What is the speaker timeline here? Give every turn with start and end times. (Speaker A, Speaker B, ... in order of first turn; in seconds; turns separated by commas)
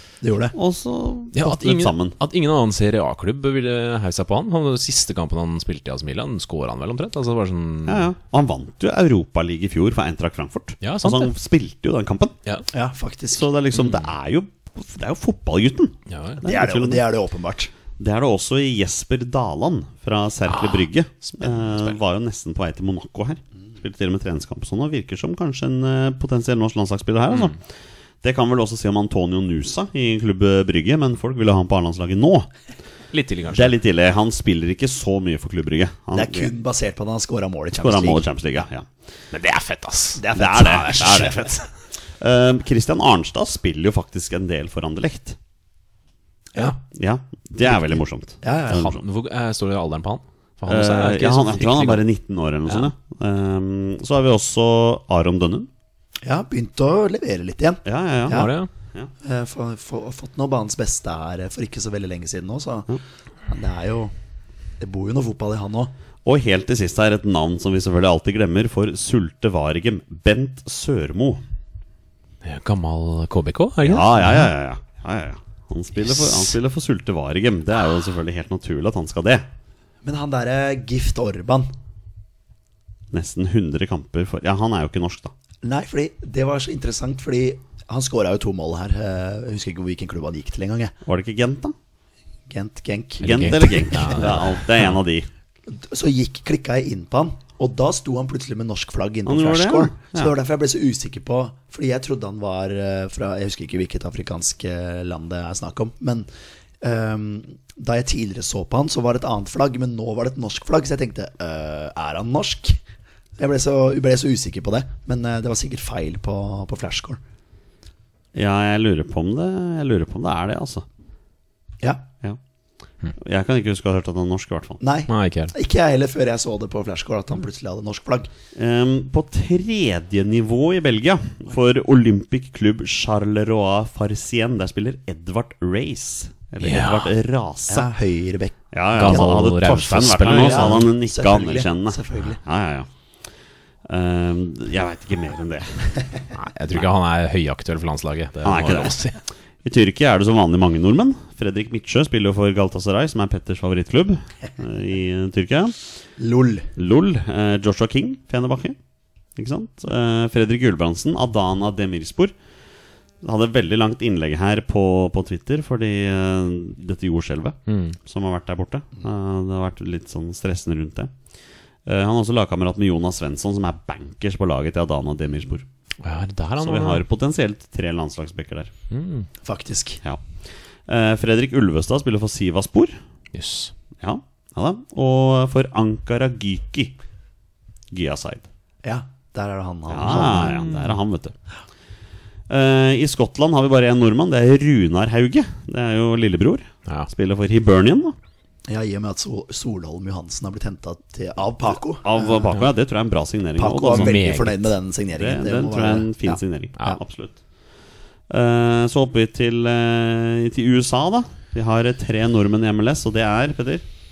Speaker A: 0.2-0.6, Speaker B: 0.5-2.2, Speaker C: 1.3-8.1, Speaker B: 7.9-12.4, Speaker C: 10.8-11.3, Speaker A: 12.7-13.5, Speaker B: 13.3-17.0, Speaker C: 16.1-16.4, Speaker A: 16.4-17.7, Speaker B: 18.0-27.6, Speaker C: 21.3-22.0, Speaker B: 28.2-32.5, Speaker C: 33.1-33.8, Speaker B: 33.5-36.5, Speaker A: 36.1-38.2, Speaker B: 37.7-38.9, Speaker C: 39.3-41.6, Speaker A: 40.2-41.6, Speaker B: 40.4-41.4, Speaker B: 42.2-45.4, Speaker B: 46.9-49.0, Speaker A: 47.6-48.9, Speaker C: 48.7-52.0, Speaker B: 50.7-55.7, Speaker A: 56.2-58.5, Speaker B: 57.9-59.1, Speaker C: 58.3-58.7, Speaker A: 59.2-64.1, Speaker A: 64.8-65.9, Speaker B: 66.2-71.4, Speaker C: 72.4-74.5, Speaker B: 73.8-79.5, Speaker C: 76.1-76.5, Speaker A: 80.0-81.7, Speaker B: 83.1-85.3, Speaker A: 85.6-90.9, Speaker B: 91.0-91.8, Speaker A: 92.5-94.2, Speaker C: 93.2-94.7, Speaker B: 93.2-95.3, Speaker A: 95.7-106.3, Speaker B: 99.3-100.3, Speaker A: 106.8-112.8, Speaker A: 113.4-117.2, Speaker B: 118.3-120.8, Speaker B: 123.2-124.8, Speaker A: 124.8-128.3, Speaker C: 125.1-125.5, Speaker B: 128.6-137.9, Speaker C: 136.6-137.1, Speaker A: 137.7-139.3, Speaker B: 138.7-142.9, Speaker C: 139.0-140.9, Speaker A: 140.3-142.4, Speaker B: 143.9-146.1, Speaker C: 146.4-149.2, Speaker B: 148.4-149.0, Speaker B: 149.6-155.8, Speaker A: 156.2-156.7, Speaker B: 156.8-158.8, Speaker B: 159.4-162.3, Speaker B: 163.2-171.1, Speaker C: 167.7-168.0, Speaker B: 171.8-175.7, Speaker C: 176.0-177.0, Speaker B: 176.6-178.7, Speaker C: 178.9-179.3, Speaker A: 179.4-180.0, Speaker B: 180.9-183.0, Speaker C: 183.3-183.7, Speaker B: 184.0-187.0, Speaker B: 187.9-188.5, Speaker A: 188.8-190.6, Speaker B: 189.9-191.3, Speaker C: 190.2-191.0, Speaker B: 192.5-198.2, Speaker A: 198.7-202.5, Speaker B: 202.0-204.2, Speaker A: 203.6-207.0, Speaker C: 203.9-204.7, Speaker B: 205.1-207.4, Speaker B: 208.3-213.8